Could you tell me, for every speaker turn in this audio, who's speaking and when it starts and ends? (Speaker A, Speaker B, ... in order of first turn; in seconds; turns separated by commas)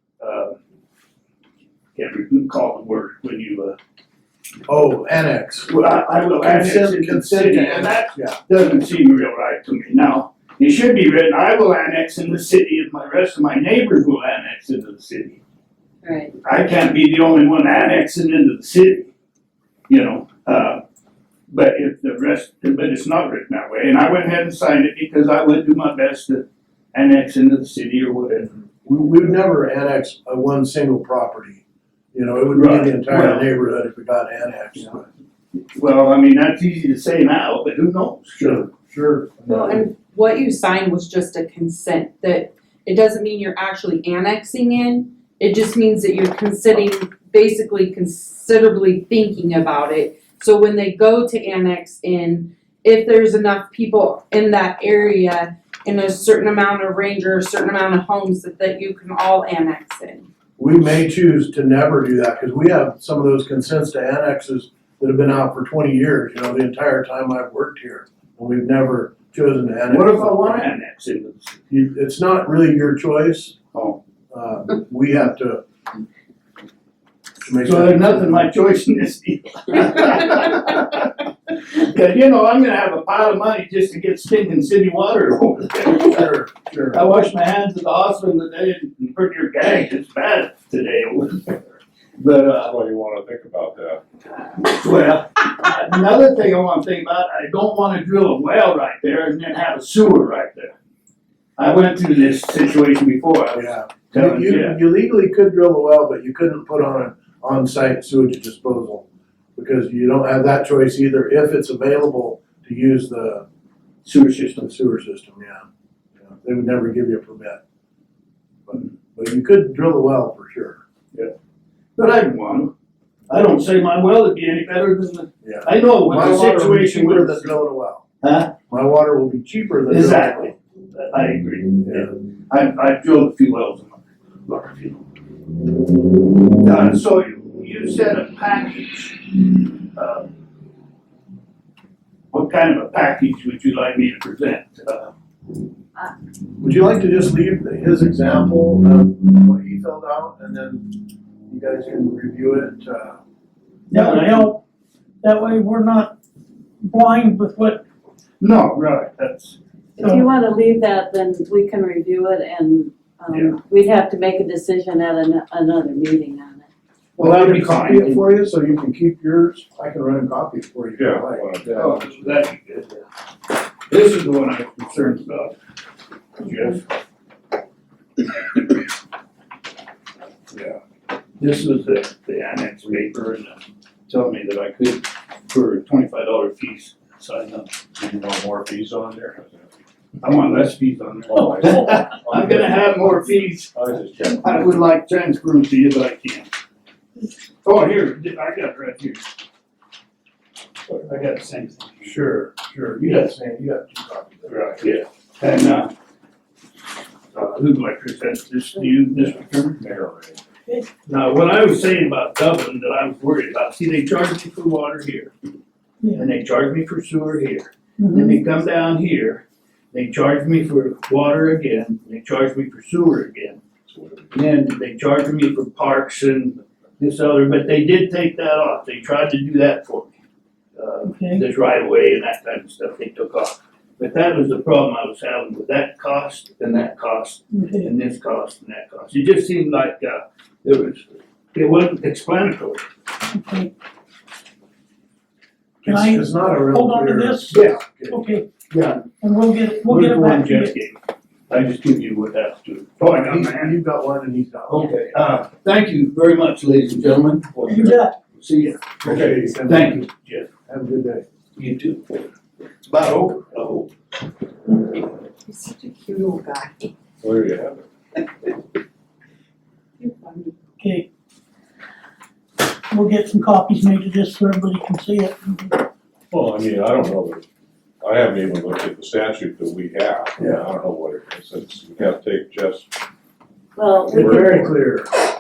Speaker A: 0.2-0.6, Speaker A: 2.0-3.8, Speaker B: 4.7-5.7, Speaker A: 5.7-15.4, Speaker B: 6.4-8.4, Speaker C: 16.0-16.3, Speaker A: 16.4-19.1, Speaker A: 19.9-20.8, Speaker A: 21.5-28.5, Speaker B: 28.8-31.6, Speaker B: 32.1-35.1, Speaker A: 32.5-33.5, Speaker A: 35.6-38.7, Speaker B: 38.4-39.9, Speaker D: 39.5-60.3, Speaker B: 60.6-70.7, Speaker A: 69.9-71.6, Speaker B: 71.7-73.6, Speaker A: 73.7-74.0, Speaker B: 74.3-75.6, Speaker B: 77.4-78.5, Speaker A: 77.6-86.3, Speaker B: 86.0-87.0, Speaker A: 86.9-91.6, Speaker A: 92.2-92.7, Speaker E: 92.6-94.0, Speaker A: 94.6-100.8, Speaker A: 101.6-104.8, Speaker B: 103.5-109.0, Speaker B: 109.6-113.4, Speaker A: 114.0-114.6, Speaker B: 114.5-115.7, Speaker B: 116.2-117.6, Speaker B: 118.7-120.8, Speaker A: 122.0-122.7, Speaker A: 123.3-127.6, Speaker B: 125.4-128.1, Speaker A: 128.2-128.5, Speaker B: 128.7-130.5, Speaker A: 129.9-135.1, Speaker B: 131.8-132.1, Speaker A: 136.6-140.3, Speaker A: 142.3-145.1, Speaker B: 146.6-153.2, Speaker A: 153.9-154.5, Speaker F: 153.9-154.6, Speaker F: 155.2-156.2, Speaker F: 156.8-157.8, Speaker A: 158.4-159.6, Speaker C: 160.0-166.7, Speaker F: 160.0-160.3, Speaker A: 163.3-163.6, Speaker A: 167.2-168.3, Speaker B: 167.2-172.0, Speaker E: 171.0-172.1, Speaker A: 171.8-173.0, Speaker A: 173.9-175.6, Speaker A: 176.4-177.0, Speaker A: 181.4-187.7, Speaker E: 188.0-189.7, Speaker A: 190.2-196.5, Speaker E: 191.3-194.8, Speaker A: 197.6-199.3, Speaker E: 200.9-201.3, Speaker A: 201.1-203.3, Speaker B: 202.5-204.9, Speaker A: 204.5-205.9, Speaker A: 207.3-209.8, Speaker E: 209.2-210.4, Speaker A: 211.1-215.3, Speaker F: 216.0-216.3, Speaker A: 216.2-223.6, Speaker F: 218.0-218.4, Speaker E: 223.9-224.4, Speaker A: 224.3-230.2, Speaker A: 230.8-242.8, Speaker F: 231.0-231.4, Speaker F: 237.5-237.9, Speaker F: 243.3-243.7, Speaker B: 245.8-248.3, Speaker F: 245.8-248.4, Speaker A: 247.5-247.8, Speaker A: 248.7-249.1, Speaker F: 249.2-250.7, Speaker A: 249.8-251.0, Speaker A: 251.5-253.8, Speaker B: 253.1-254.9, Speaker A: 254.7-257.8, Speaker E: 257.6-258.0, Speaker F: 257.7-258.1, Speaker A: 258.4-260.5, Speaker B: 259.0-260.0, Speaker E: 259.0-259.4, Speaker B: 260.7-261.2, Speaker A: 261.6-262.2, Speaker A: 262.9-263.9, Speaker D: 265.5-266.9, Speaker E: 267.2-267.8, Speaker D: 270.0-270.5, Speaker F: 270.8-271.1, Speaker F: 272.9-275.9, Speaker E: 276.3-277.4, Speaker E: 278.0-282.9, Speaker C: 283.8-284.6, Speaker B: 284.1-285.2, Speaker E: 284.1-284.7